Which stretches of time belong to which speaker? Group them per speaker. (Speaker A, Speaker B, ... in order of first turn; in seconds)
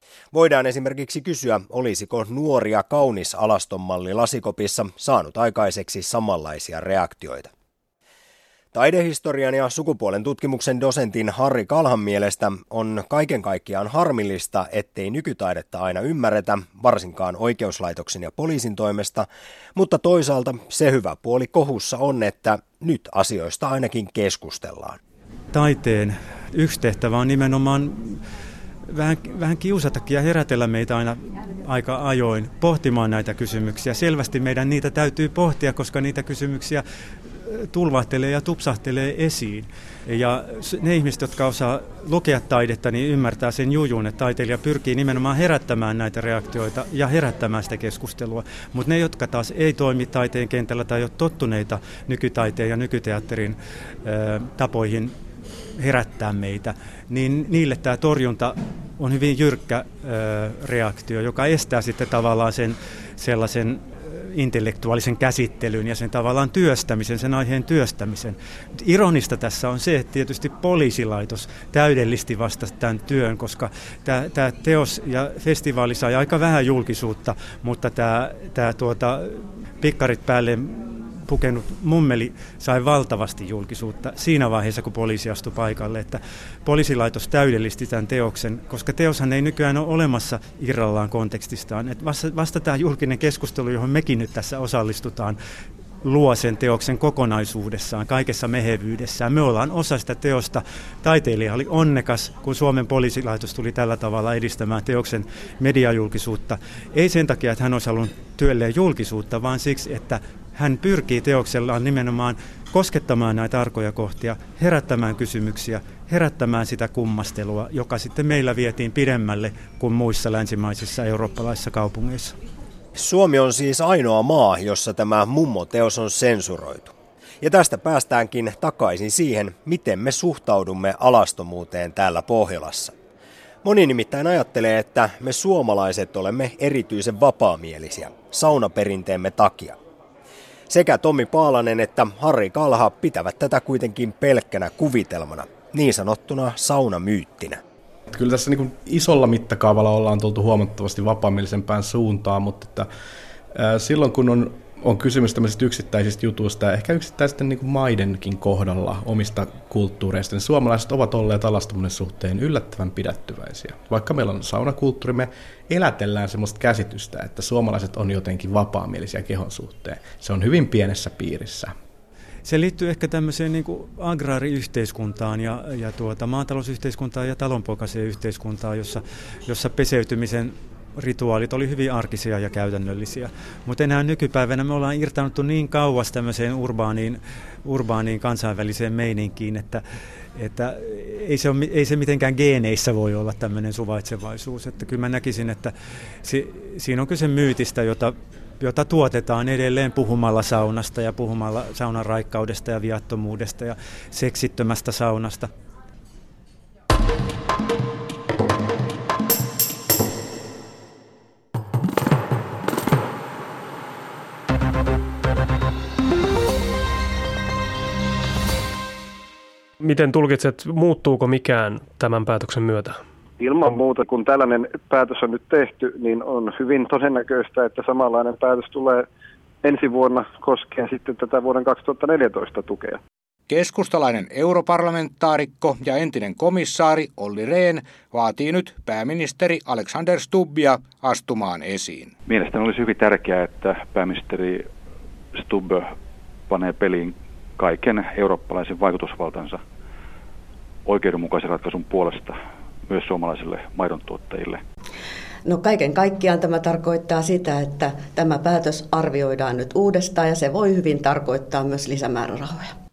Speaker A: 0.3-7.5, 8.7-25.0, 123.0-132.9, 133.6-139.8, 140.7-147.6
Speaker B: 25.5-28.2, 28.9-55.2, 55.8-95.4, 96.0-122.4, 172.4-189.8, 190.3-205.5
Speaker C: 148.1-152.9, 153.5-171.7
Speaker D: 219.8-223.0
Speaker E: 223.4-229.0, 229.6-233.0
Speaker F: 233.5-242.1
Speaker G: 242.3-244.7, 245.3-245.9, 246.5-249.6, 250.8-254.6
Speaker H: 255.4-262.8